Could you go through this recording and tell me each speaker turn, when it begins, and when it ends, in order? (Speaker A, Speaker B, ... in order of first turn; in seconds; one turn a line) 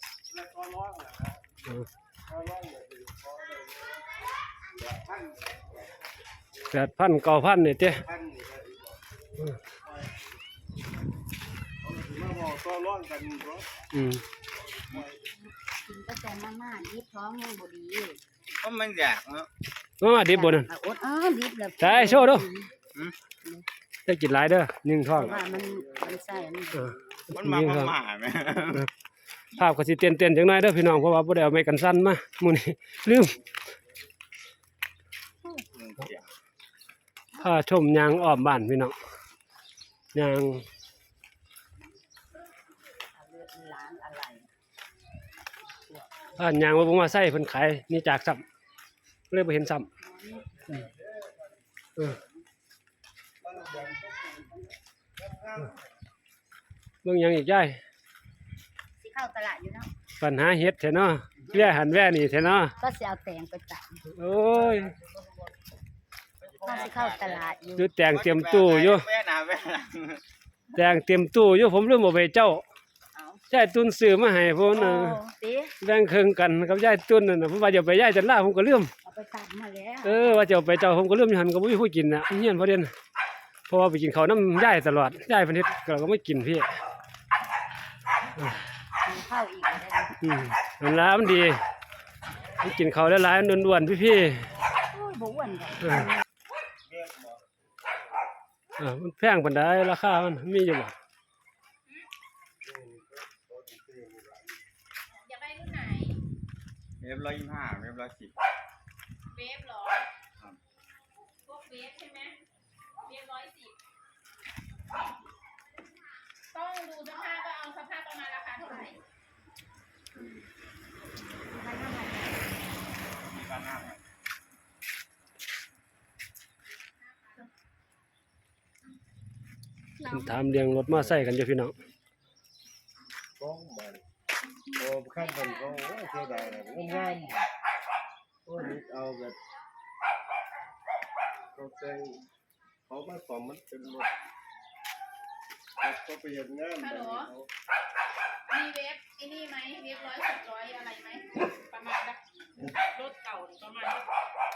Speaker A: 0.3-1.4
Speaker A: 2.3-4.1
Speaker A: 4.7-5.8
Speaker B: 6.7-8.0
Speaker A: 7.8-9.0
Speaker A: 9.7-10.3
Speaker A: 11.8-13.7
Speaker B: 13.9-14.2
Speaker A: 14.5-15.3
Speaker C: 15.3-18.2
Speaker D: 18.6-19.5
Speaker B: 20.0-20.7
Speaker C: 20.3-22.8
Speaker B: 21.8-22.5
Speaker D: 22.9-23.2
Speaker B: 24.1-25.4
Speaker C: 25.1-26.9
Speaker A: 25.2-26.1
Speaker B: 26.8-27.9
Speaker D: 27.3-28.9
Speaker B: 29.5-33.4
Speaker D: 35.7-36.3
Speaker B: 37.4-39.0
Speaker B: 40.1-40.6
Speaker C: 43.1-44.5
Speaker B: 46.4-48.4
Speaker B: 49.3-49.9
Speaker C: 50.0-50.6
Speaker A: 50.7-51.6
Speaker A: 53.4-54.6
Speaker A: 55.2-55.9
Speaker B: 57.0-57.8
Speaker C: 59.0-59.9
Speaker B: 60.2-62.8
Speaker C: 62.8-64.0
Speaker B: 64.1-64.9
Speaker A: 64.5-65.5
Speaker A: 66.4-67.4
Speaker D: 66.4-67.4
Speaker C: 66.6-67.9
Speaker B: 67.8-69.0
Speaker D: 68.0-70.2
Speaker B: 70.8-72.6
Speaker C: 73.1-73.4
Speaker B: 73.5-75.2
Speaker C: 74.7-75.8
Speaker B: 75.8-78.9
Speaker C: 79.0-80.3
Speaker B: 80.0-82.9
Speaker B: 83.7-86.7
Speaker C: 89.0-90.2
Speaker B: 90.2-91.6
Speaker B: 92.6-94.5
Speaker C: 94.9-96.2
Speaker B: 95.8-96.1
Speaker A: 96.9-97.4
Speaker B: 98.8-100.9
Speaker A: 102.6-104.6
Speaker E: 105.1-106.2
Speaker D: 107.0-108.3
Speaker E: 109.3-110.1
Speaker E: 111.4-112.4
Speaker E: 113.0-113.8
Speaker E: 116.5-119.0
Speaker C: 121.4-122.5
Speaker D: 123.2-124.0
Speaker E: 126.8-127.5
Speaker E: 130.0-130.4
Speaker B: 130.1-131.7
Speaker A: 133.4-134.0
Speaker A: 134.8-137.4
Speaker E: 135.1-137.5
Speaker A: 138.5-139.4
Speaker A: 141.5-142.2
Speaker A: 142.9-144.1
Speaker A: 145.8-147.5
Speaker E: 146.8-147.3
Speaker E: 148.5-154.1